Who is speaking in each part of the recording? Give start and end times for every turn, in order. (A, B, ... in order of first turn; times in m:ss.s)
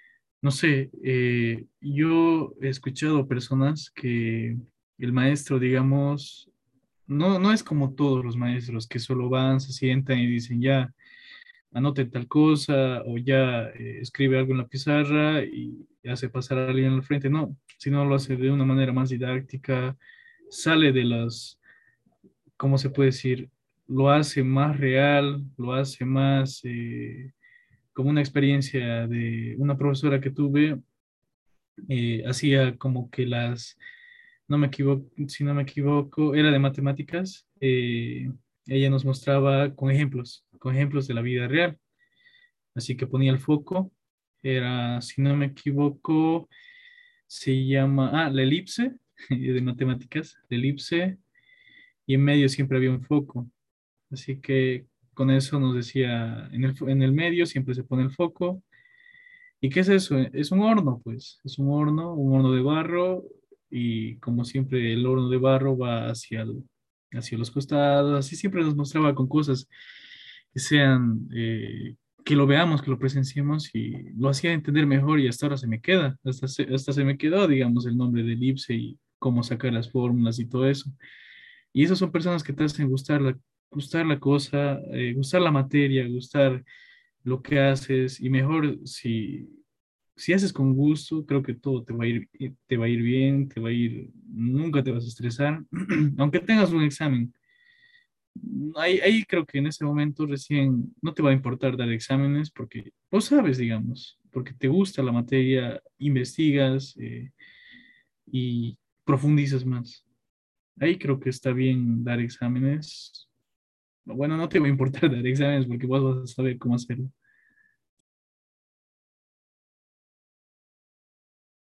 0:00.4-0:06.5 A
0:07.1-0:10.9 A
0:11.7-0:20.0 A
0:20.5-0:21.6 A
0:22.6-0:27.3 A
0:27.9-0:30.8 A
0:31.9-0:33.8 A
0:34.5-0:41.8 A
0:42.7-0:46.5 A
0:47.3-0:51.2 A
0:52.1-0:53.5 A
0:54.1-0:58.6 A
0:59.6-1:09.7 A
1:10.5-1:20.9 A
1:21.7-1:26.6 A
1:27.2-1:29.6 A
1:30.2-1:37.3 A
1:38.4-1:47.3 A
1:48.3-1:50.0 A
1:50.8-1:53.3 A
1:54.1-1:57.1 A